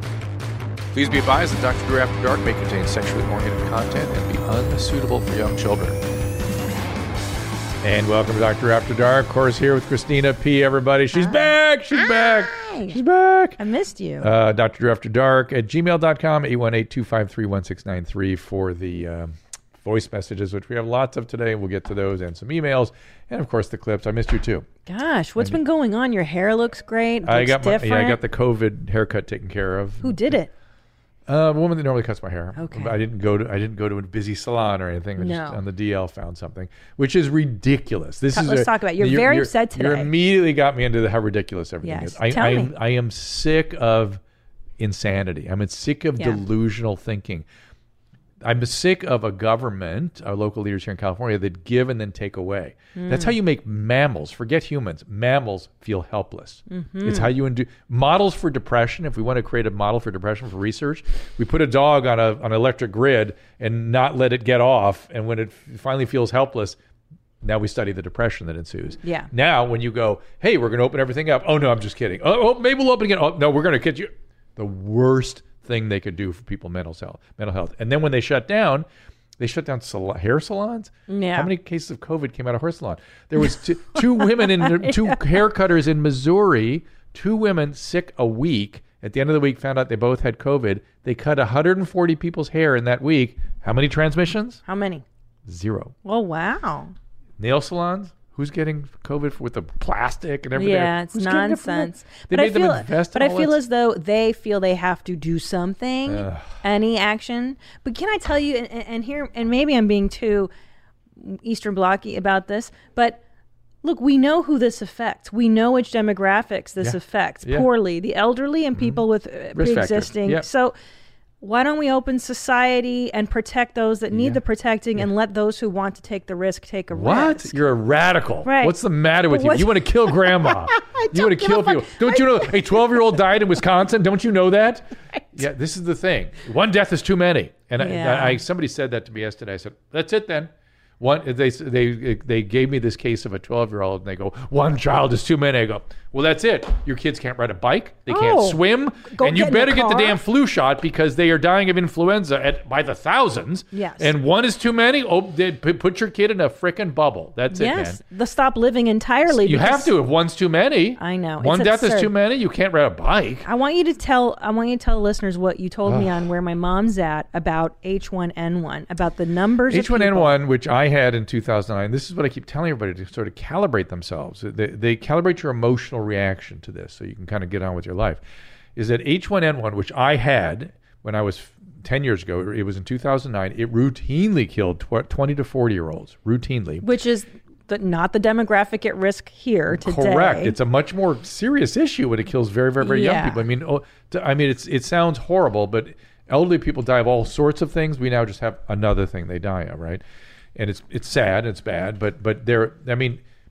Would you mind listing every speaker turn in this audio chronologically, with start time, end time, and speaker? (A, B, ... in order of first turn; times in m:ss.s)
0:00.9-0:06.0 A
0:07.8-0:13.6 A
0:11.1-0:13.0 B
0:13.6-0:14.3 B
0:14.2-0:24.7 A
0:24.8-0:28.2 B
0:27.2-0:30.4 A
0:30.0-0:30.5 B
0:31.3-0:44.2 A
0:32.5-0:33.0 B
0:35.2-0:35.6 B
0:38.3-0:40.1 B
0:41.8-0:42.7 B
0:44.8-0:47.4 A
0:48.4-1:06.8 A
0:52.9-0:53.4 B
0:56.7-0:57.3 B
1:07.4-1:18.9 A
1:09.0-1:09.3 B
1:19.4-1:34.6 A
1:21.1-1:21.5 B
1:24.0-1:25.2 B
1:34.7-1:35.0 B
1:35.4-1:35.9 A
1:36.0-1:36.9 B
1:37.4-1:43.6 A
1:40.5-1:50.5 B
1:46.0-1:46.6 A
1:51.2-1:53.2 B
1:53.8-2:00.8 B
1:56.8-1:57.7 A
1:58.7-1:59.0 A
1:59.5-2:00.4 A
2:01.4-2:07.6 B
2:04.1-2:04.4 A
2:06.9-2:38.0 A
2:08.4-2:13.2 B
2:17.8-2:18.4 B
2:28.1-2:30.2 B
2:33.7-2:34.1 B
2:37.5-2:39.9 B
2:39.3-2:43.5 A
2:41.0-2:42.1 B
2:43.4-2:50.3 B
2:45.8-2:46.1 A
2:49.7-2:58.2 A
2:58.8-3:06.9 A
3:06.8-3:10.6 B
3:09.7-3:20.0 A
3:12.8-3:13.4 B
3:20.6-3:23.2 A